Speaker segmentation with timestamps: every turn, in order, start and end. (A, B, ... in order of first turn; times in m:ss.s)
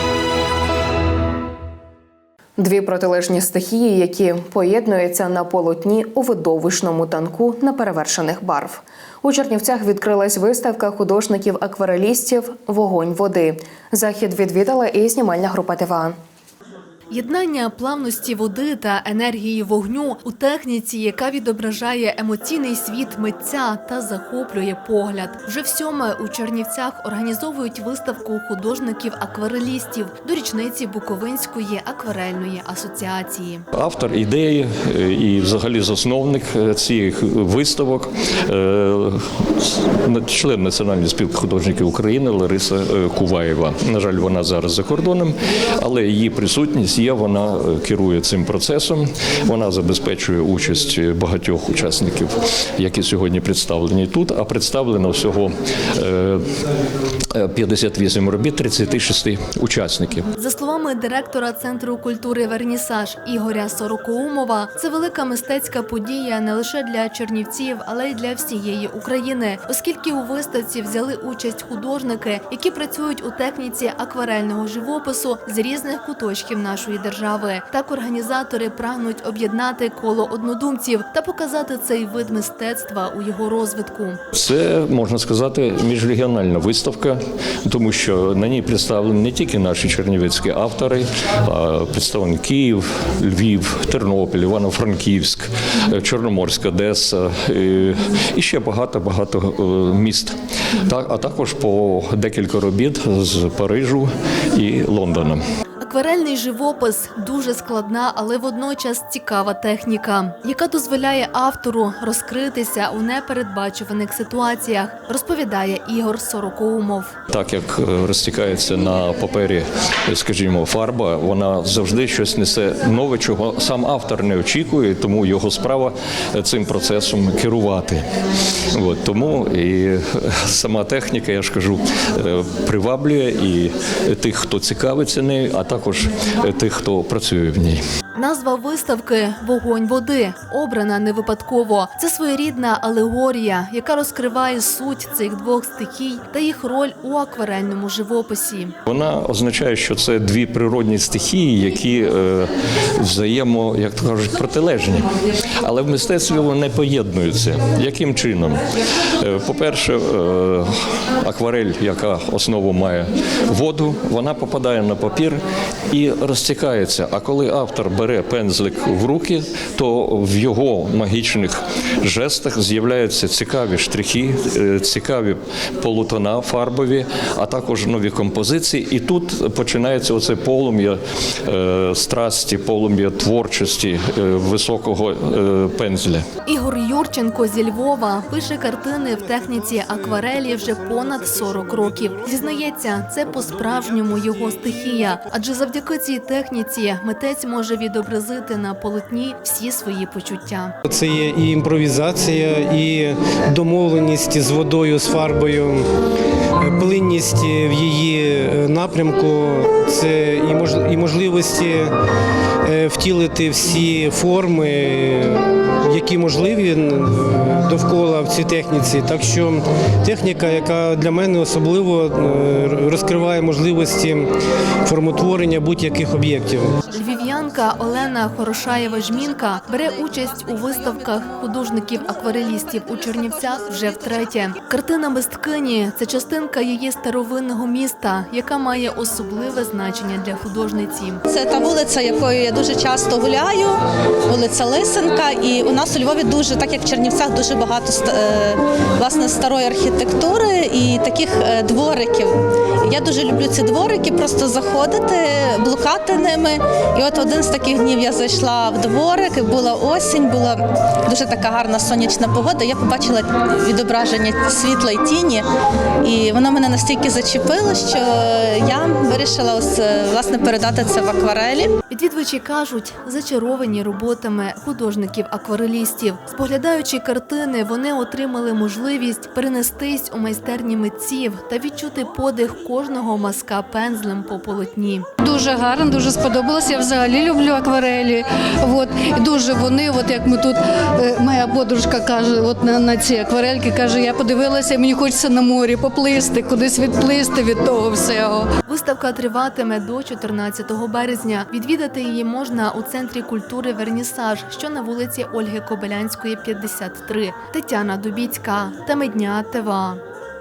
0:02.6-0:16.2 A
0:17.1-0:33.6 B
0:33.7-0:56.5 C
0:57.3-1:00.3 C
1:00.4-1:24.2 B
1:24.3-1:45.4 C
1:45.8-1:57.1 B
1:57.3-2:08.0 C
2:08.7-2:17.8 C
2:18.2-2:28.7 B
2:28.9-2:35.1 C
2:35.6-2:38.6 C
2:39.2-3:06.2 C
3:06.5-3:20.7 B
3:10.0-3:10.4 D
3:11.1-3:11.9 D
3:20.9-3:25.9 D
3:26.6-3:31.9 D
3:32.6-3:44.3 D
3:44.8-3:46.8 D
3:46.9-4:01.2 B
4:01.3-4:03.8 E
4:04.3-4:25.4 E
4:26.0-4:31.7 E
4:31.9-4:45.1 B
4:45.2-4:58.5 F
4:58.7-5:10.0 B